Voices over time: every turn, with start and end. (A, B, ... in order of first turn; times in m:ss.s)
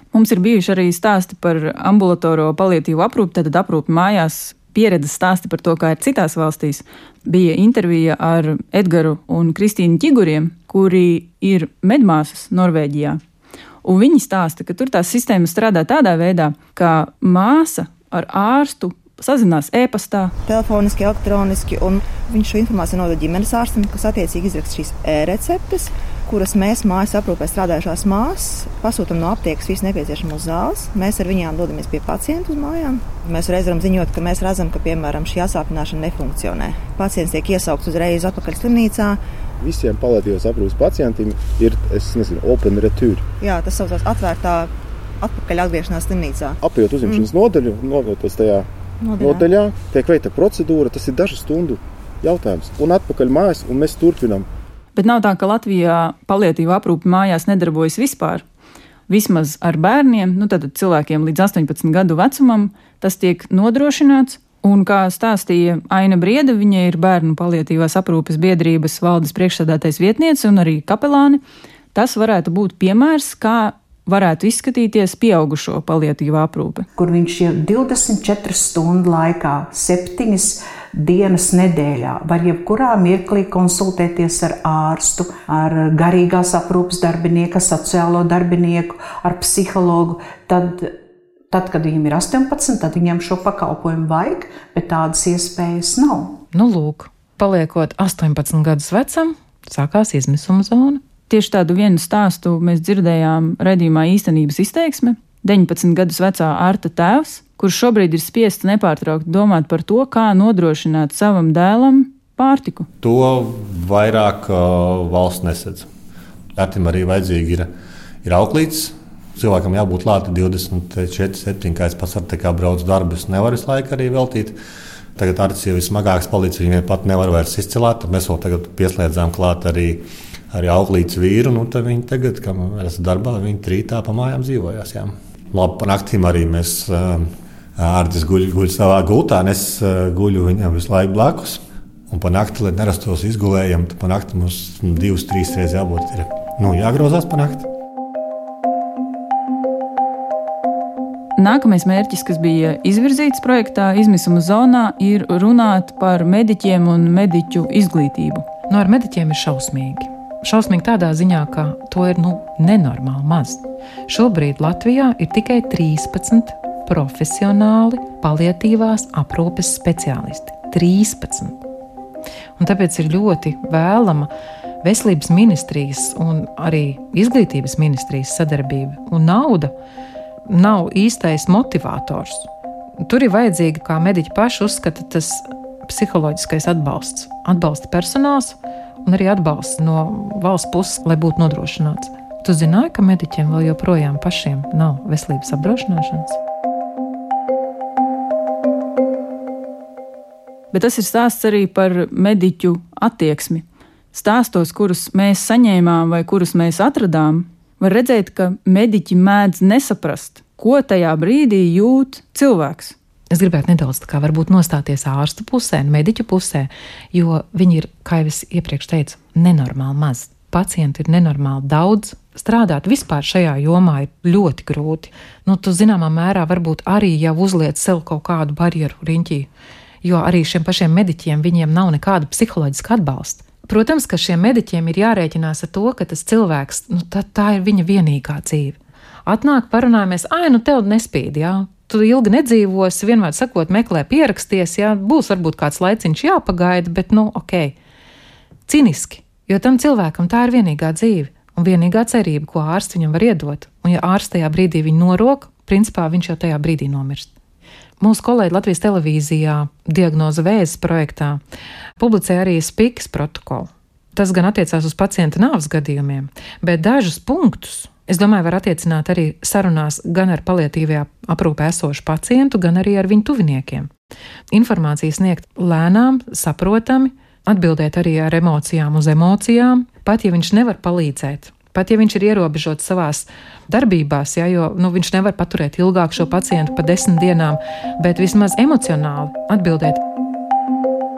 0:00.1-0:13.2 A
0:13.8-0:20.3 A
0:20.4-0:39.2 B
0:39.6-0:43.2 C
0:43.4-0:47.3 B
0:46.6-0:48.7 C
0:49.0-0:49.4 B
0:49.2-0:54.5 C
0:54.9-0:58.4 A
0:59.1-1:11.4 A
1:11.9-1:16.8 A
1:17.0-1:30.9 D
1:31.5-1:36.4 D
1:36.5-1:41.0 E
1:41.3-1:52.9 A
1:53.0-1:55.9 F
1:56.6-1:57.7 F
1:58.2-2:04.6 F
2:05.2-2:17.2 F
2:17.8-2:27.7 F
2:31.4-2:38.4 A
2:38.7-2:51.6 E
2:52.6-2:54.3 E
2:54.8-2:59.7 E
3:00.5-3:02.5 E
3:03.0-3:16.4 E
3:20.7-3:33.0 A
3:33.3-3:49.5 E
3:50.0-4:07.8 E
4:08.7-4:17.3 E
4:18.0-4:21.4 E
4:22.0-4:33.9 E
4:34.5-4:50.0 E